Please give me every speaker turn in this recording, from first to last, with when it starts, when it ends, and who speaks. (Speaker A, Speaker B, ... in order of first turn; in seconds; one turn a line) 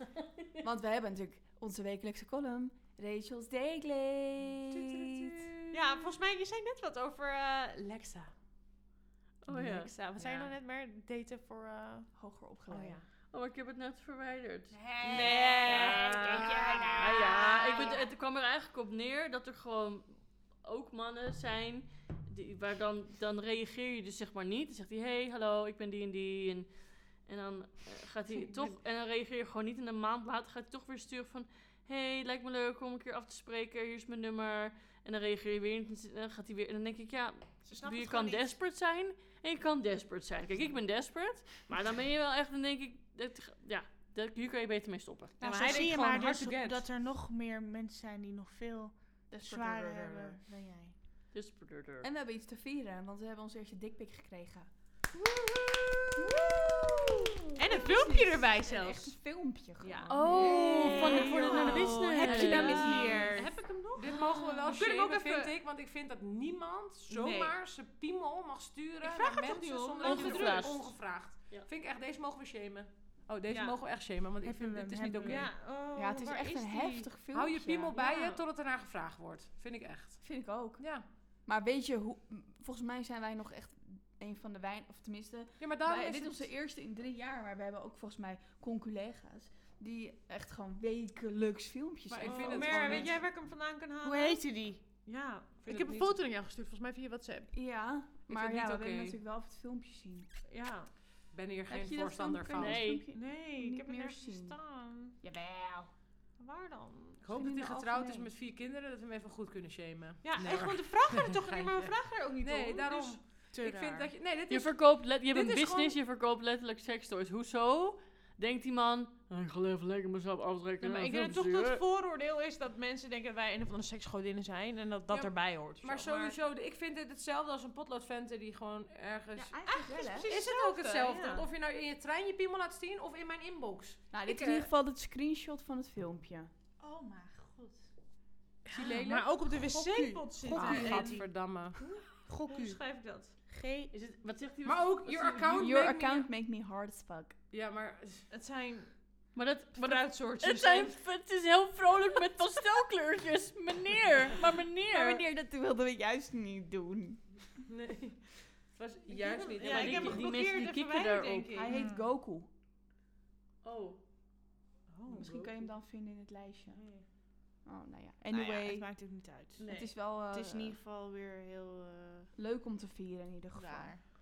Speaker A: 0.6-5.7
Speaker B: 5.0-5.3
Speaker C: 5.7-8.3
Speaker D: 9.4-9.9
Speaker C: 9.5-12.1
Speaker B: 10.2-10.5
Speaker A: 12.1-13.0
Speaker C: 12.7-13.0
Speaker D: 13.3-26.7
Speaker C: 14.7-17.9
Speaker E: 15.0-18.0
Speaker D: 27.2-45.4
Speaker C: 28.4-28.7
Speaker E: 37.7-38.4
Speaker C: 45.4-46.8
Speaker E: 45.4-50.9
Speaker B: 45.6-46.2
Speaker A: 49.3-50.4
Speaker D: 51.3-52.1
Speaker A: 52.0-54.7
Speaker A: 56.1-63.4
Speaker C: 57.6-59.1
Speaker C: 59.8-65.5
Speaker D: 60.1-63.2
Speaker E: 60.2-63.5
Speaker B: 64.0-75.5
Speaker C: 67.1-67.5
Speaker C: 69.0-70.7
Speaker D: 70.0-70.9
Speaker C: 73.5-73.8
Speaker E: 74.4-75.5
Speaker C: 75.2-77.1
Speaker A: 75.9-78.3
Speaker B: 77.3-81.0
Speaker C: 78.0-78.3
Speaker A: 80.2-80.9
Speaker A: 81.5-93.2
Speaker B: 85.6-86.5
Speaker B: 92.1-93.2
Speaker C: 92.2-94.4
Speaker E: 94.0-94.8
Speaker C: 95.0-97.5
Speaker B: 95.6-96.2
Speaker A: 97.5-100.3
Speaker B: 98.3-99.2
Speaker C: 100.5-100.9
Speaker B: 101.3-102.9
Speaker A: 101.7-104.6
Speaker D: 102.6-103.0
Speaker C: 103.1-105.2
Speaker A: 105.2-105.8
Speaker C: 106.4-107.2
Speaker B: 107.2-116.0
Speaker A: 107.3-108.3
Speaker C: 110.2-113.2
Speaker E: 113.5-114.1
Speaker D: 114.5-121.8
Speaker C: 120.8-126.3
Speaker B: 125.1-129.6
Speaker A: 129.3-130.3
Speaker C: 129.7-131.4
Speaker B: 130.2-134.7
Speaker A: 134.1-136.5
Speaker E: 136.8-137.9
Speaker B: 138.7-139.4
Speaker C: 138.7-141.2
Speaker E: 139.6-141.2
Speaker B: 140.5-141.8
Speaker A: 140.5-141.2
Speaker C: 141.8-143.3
Speaker E: 142.2-142.8
Speaker E: 143.5-143.9
Speaker D: 143.9-145.7
Speaker B: 144.6-146.3
Speaker A: 145.6-147.4
Speaker B: 147.5-148.3
Speaker C: 148.3-148.9
Speaker D: 149.3-155.2
Speaker C: 149.8-151.0
Speaker A: 154.9-157.6
Speaker B: 157.7-160.3
Speaker C: 159.1-161.8
Speaker D: 159.6-161.6
Speaker A: 161.5-162.5
Speaker E: 161.7-162.0
Speaker D: 163.6-164.0
Speaker C: 164.9-165.3
Speaker B: 165.1-165.6
Speaker A: 165.1-166.8
Speaker B: 166.7-167.1
Speaker A: 167.6-168.9
Speaker E: 168.3-172.3
Speaker C: 169.6-169.9
Speaker A: 169.6-170.8
Speaker A: 172.3-174.0
Speaker E: 173.5-174.0